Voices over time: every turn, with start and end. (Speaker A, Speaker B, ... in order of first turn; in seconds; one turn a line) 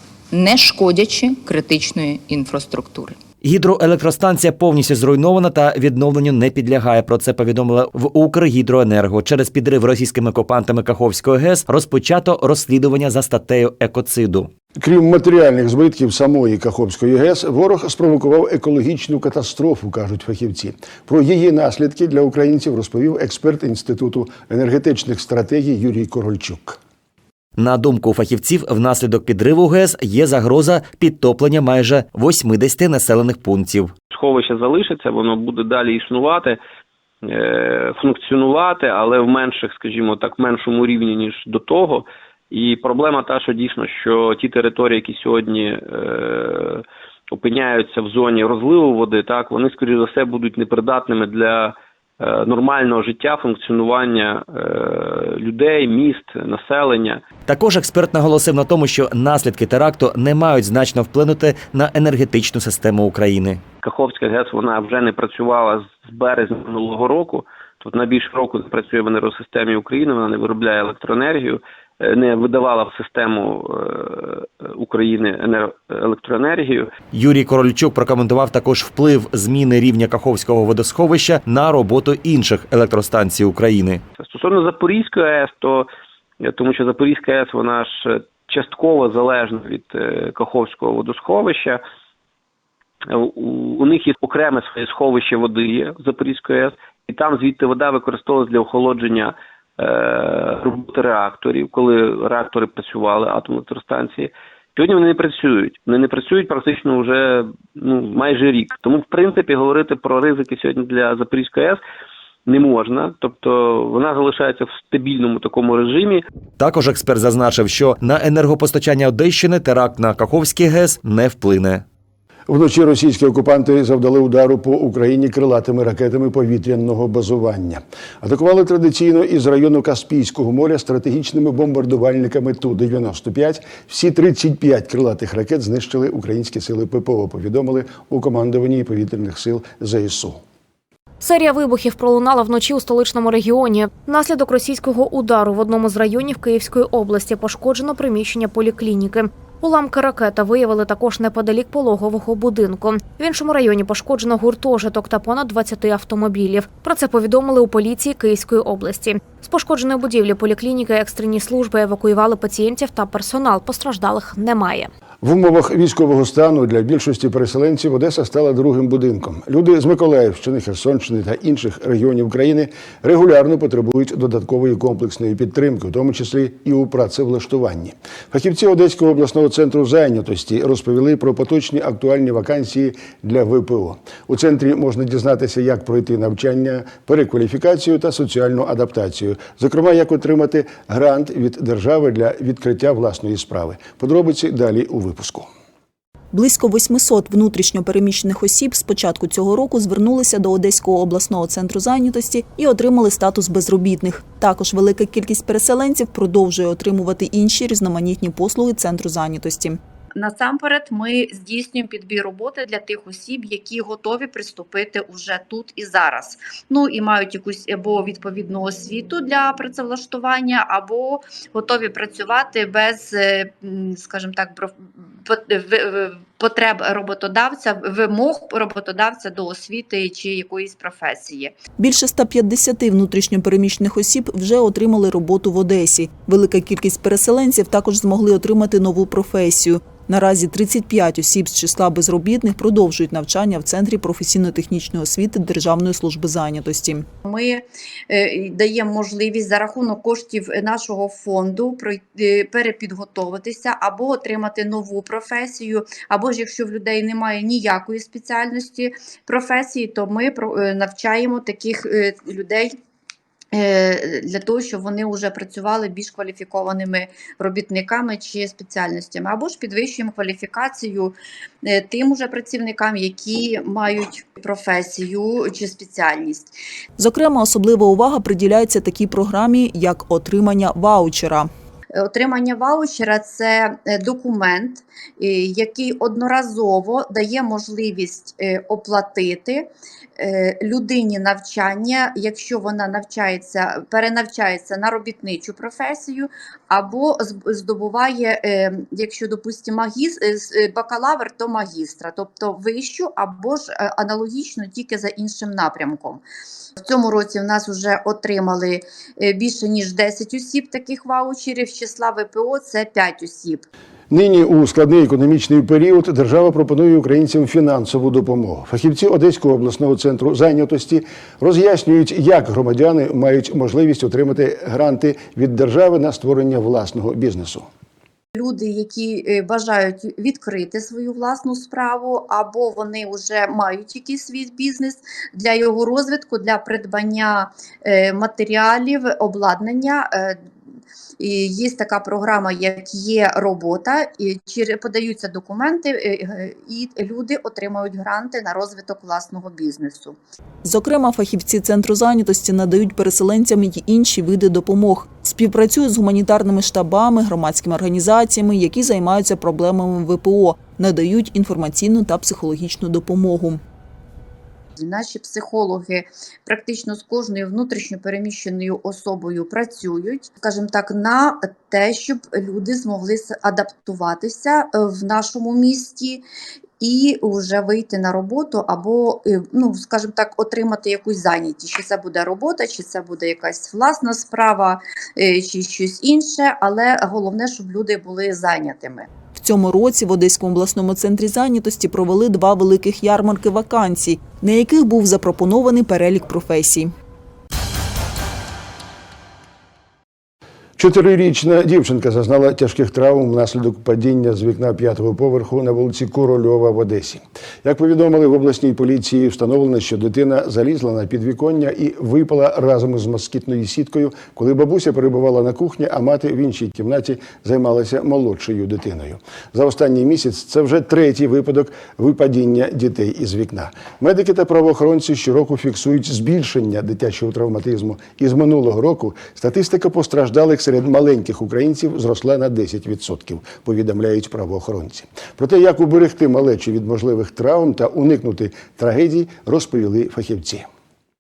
Speaker A: 0.3-3.2
Speaker B: 3.4-14.5
Speaker C: 14.8-26.8
Speaker B: 27.6-33.9
Speaker D: 34.1-36.6
Speaker D: 37.2-57.2
Speaker B: 57.5-63.6
Speaker D: 63.8-76.9
Speaker B: 77.1-84.0
Speaker D: 84.2-85.9
Speaker D: 86.4-91.8
Speaker D: 93.1-111.8
Speaker D: 112.5-116.2
Speaker B: 116.6-121.8
Speaker C: 122.5-140.4
Speaker E: 141.2-164.9
Speaker C: 165.2-195.5
Speaker F: 196.3-209.8
Speaker G: 210.2-231.5
Speaker F: 231.8-247.1
Speaker G: 247.2-262.7
Speaker G: 263.5-276.5
Speaker F: 277.0-281.5
Speaker G: 282.0-306.2
Speaker G: 306.8-313.6
Speaker C: 314.1-327.6
Speaker G: 328.3-340.4
Speaker G: 341.2-350.2
Speaker F: 350.6-363.6
Speaker G: 364.8-376.2
Speaker G: 376.8-389.1
Speaker F: 389.4-396.9
Speaker C: 400.8-440.6